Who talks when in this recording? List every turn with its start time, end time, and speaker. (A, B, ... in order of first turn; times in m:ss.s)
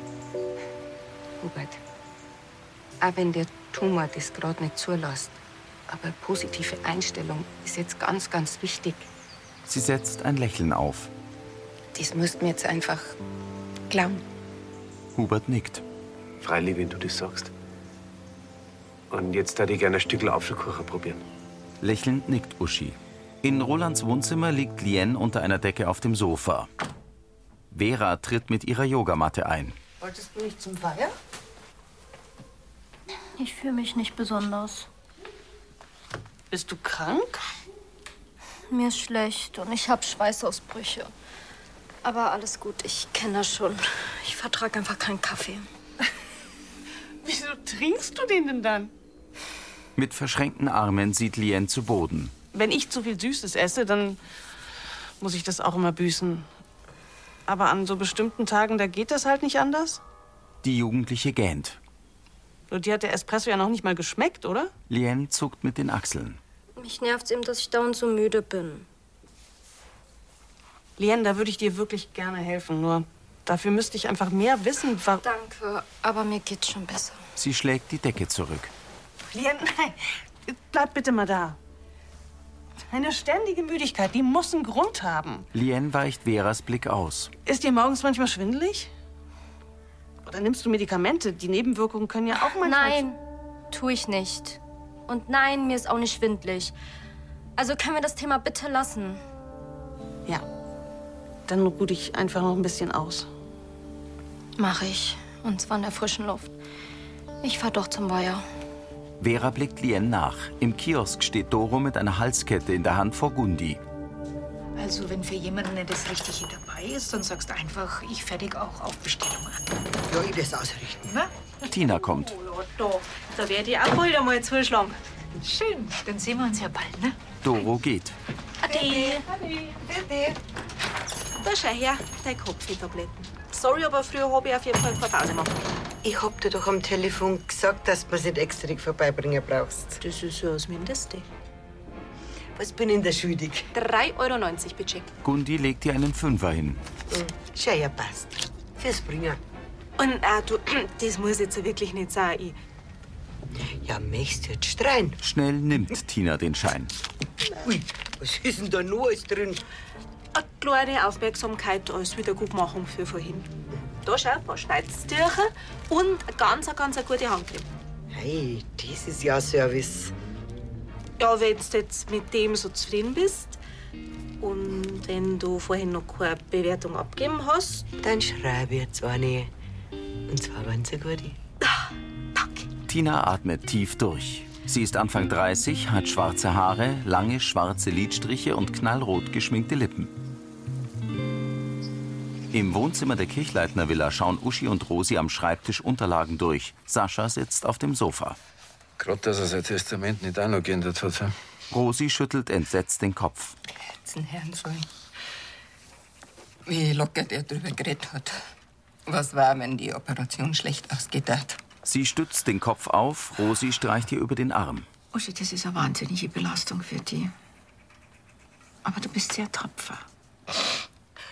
0:01.4-0:01.8 A
0:03.0-0:09.1 A
0:09.7-0:11.1 B
0:11.9-0:13.2 A
0:13.9-0:14.2 A
0:15.2-0:15.8 B
0:16.4-0:17.5 C
0:19.1-0:21.2 C
0:21.8-0:26.7 B
0:27.7-0:29.8 B
0:30.0-0:31.1 D
0:33.4-0:34.9 E
0:36.5-0:37.4 D
0:38.7-0:41.1 E
0:42.0-0:45.7 E
0:47.2-0:48.9 D
0:50.0-0:52.3 B
0:52.5-0:54.2 D
0:55.2-0:56.5 D
0:57.5-1:00.0 D
1:00.6-1:01.8 B
1:02.7-1:04.7 D
1:04.9-1:06.4 B
1:06.8-1:08.9 E
1:11.0-1:15.2 D
1:15.2-1:17.2 E
1:17.4-1:18.7 B
1:19.3-1:21.6 D
1:22.9-1:25.5 D
1:25.5-1:27.3 B
1:27.5-1:28.9 D
1:30.2-1:33.0 D
1:32.6-1:33.2 E
1:33.7-1:36.7 E
1:37.6-1:39.2 E
1:41.5-1:43.3 D
1:44.6-1:46.5 E
1:47.4-1:48.5 E
1:49.2-1:53.8 B
1:54.8-1:59.7 F
2:00.1-2:01.1 G
2:01.0-2:01.3 F
2:01.7-2:02.4 B
2:02.4-2:05.0 H
2:05.4-2:07.2 F
2:07.4-2:08.2 B
2:08.6-2:09.2 H
2:09.8-2:10.4 G
2:11.4-2:15.7 H
2:16.0-2:20.0 G
2:20.0-2:21.3 H
2:22.6-2:23.7 G
2:23.7-2:25.1 H
2:25.2-2:26.8 B
2:27.1-2:29.4 G
2:30.0-2:32.6 H
2:33.8-2:35.2 G
2:35.2-2:36.9 B
2:37.6-2:39.6 G
2:40.3-2:43.5 H
2:44.0-2:47.7 H
2:48.1-2:50.1 G
2:51.2-2:53.6 H
2:54.4-2:57.9 H
2:58.0-2:59.5 G
3:00.3-3:01.4 G
3:02.9-3:10.1 B
3:12.5-3:18.4 B
3:19.0-3:21.3 I
3:21.7-3:23.6 B
3:24.0-3:24.9 A
3:26.7-3:28.4 A
3:29.1-3:31.6 A
3:31.8-3:34.9 B
3:35.1-3:37.3 J
3:38.8-3:40.0 J